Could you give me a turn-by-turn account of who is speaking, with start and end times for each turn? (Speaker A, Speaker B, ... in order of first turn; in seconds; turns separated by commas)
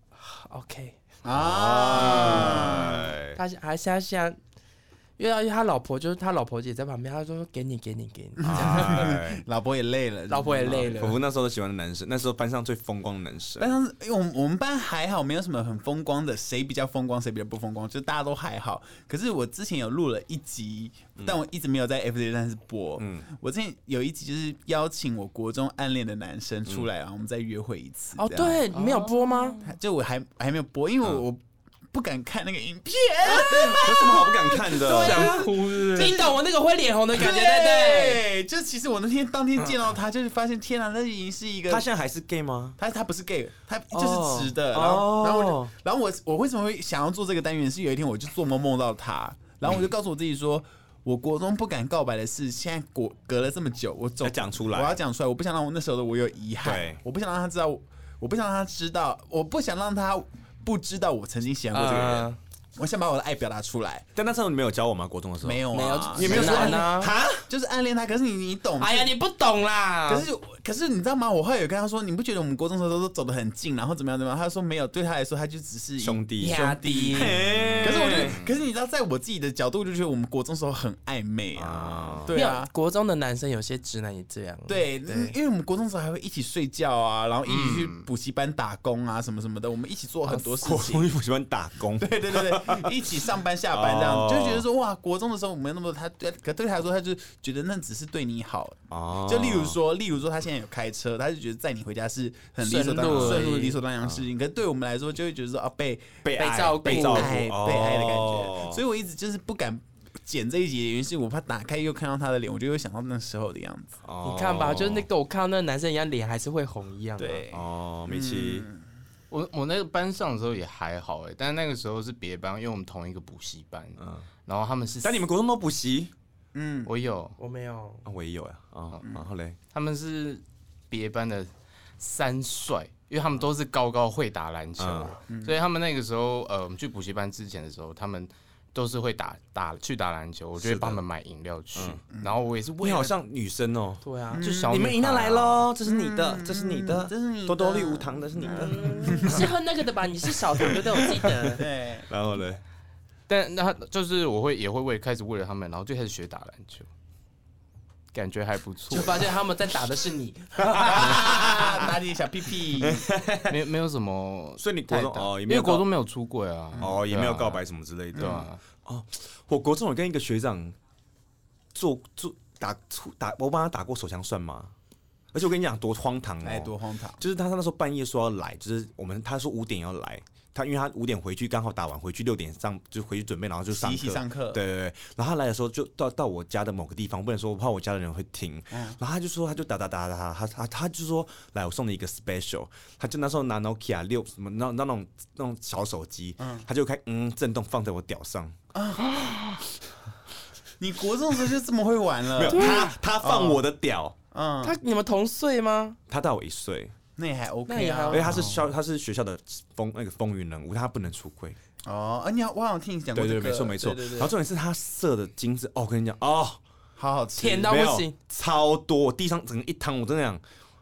Speaker A: 0.2-1.0, Speaker B: 1.2-3.1, Speaker C: 1.3-3.4, Speaker A: 2.1-2.6, Speaker A: 3.3-4.4, Speaker A: 5.2-9.1, Speaker B: 8.4-11.0, Speaker C: 8.5-9.4, Speaker A: 10.3-11.2, Speaker C: 10.9-13.7, Speaker B: 13.6-28.6, Speaker C: 23.0-23.2, Speaker A: 28.2-29.6, Speaker D: 28.7-29.7, Speaker B: 29.6-31.4, Speaker B: 31.9-36.3, Speaker C: 33.3-35.3, Speaker A: 35.0-38.2, Speaker D: 35.1-36.2, Speaker B: 37.1-41.9, Speaker C: 41.7-42.8, Speaker B: 42.8-64.1, Speaker C: 43.9-45.7, Speaker C: 49.6-49.9, Speaker C: 54.2-55.0, Speaker C: 56.6-57.0, Speaker A: 61.7-62.4, Speaker C: 64.2-67.5, Speaker B: 65.4-66.9, Speaker A: 65.7-67.1, Speaker B: 67.5-69.1, Speaker A: 68.8-70.3, Speaker B: 70.1-82.7, Speaker C: 76.0-78.4, Speaker A: 76.4-77.4, Speaker D: 78.0-78.5, Speaker C: 81.5-82.3, Speaker A: 82.3-85.3, Speaker B: 84.7-91.1, Speaker D: 87.5-88.1, Speaker C: 90.3-93.0, Speaker B: 92.0-106.2, Speaker C: 93.7-94.7, Speaker C: 98.9-99.8, Speaker A: 102.7-103.8, Speaker D: 102.8-103.7, Speaker C: 106.2-108.8, Speaker A: 106.4-107.4, Speaker B: 106.9-114.0, Speaker C: 114.0-115.1, Speaker A: 114.2-117.4, Speaker B: 117.2-118.8, Speaker C: 117.5-118.7, Speaker D: 119.3-125.2, Speaker C: 124.0-124.3, Speaker C: 125.0-126.1, Speaker B: 126.5-126.9, Speaker D: 126.9-127.3, Speaker A: 127.4-128.0, Speaker C: 128.1-129.6, Speaker D: 129.7-143.2, Speaker C: 134.8-135.2, Speaker B: 135.3-135.6, Speaker C: 140.6-141.0, Speaker C: 141.8-142.0, Speaker C: 142.8-149.5, Speaker A: 144.0-144.4, Speaker B: 144.3-144.7, Speaker D: 144.4-145.7, Speaker B: 145.8-149.5, Speaker A: 148.5-151.6, Speaker C: 150.5-151.6, Speaker B: 151.6-152.1, Speaker C: 152.1-152.6, Speaker D: 153.3-156.9, Speaker D: 158.1-159.3, Speaker A: 158.9-161.6, Speaker C: 160.6-161.7, Speaker B: 160.9-163.1, Speaker C: 162.8-163.6, Speaker D: 163.5-167.6, Speaker C: 164.6-165.9, Speaker C: 166.8-170.8, Speaker D: 168.2-168.6, Speaker C: 171.7-174.7, Speaker C: 175.3-198.6, Speaker B: 176.4-177.2, Speaker B: 183.7-184.6, Speaker B: 188.7-189.0, Speaker B: 196.4-196.7, Speaker B: 198.7-199.1, Speaker B: 200.8-203.6, Speaker C: 202.4-204.2, Speaker A: 202.5-202.9, Speaker B: 204.3-204.8, Speaker A: 204.6-206.0, Speaker C: 206.1-206.9, Speaker B: 207.2-208.6, Speaker A: 207.7-208.4, Speaker C: 208.1-211.6, Speaker B: 211.9-214.3, Speaker C: 213.1-216.6, Speaker B: 217.0-217.8, Speaker A: 217.4-218.2, Speaker C: 217.6-220.4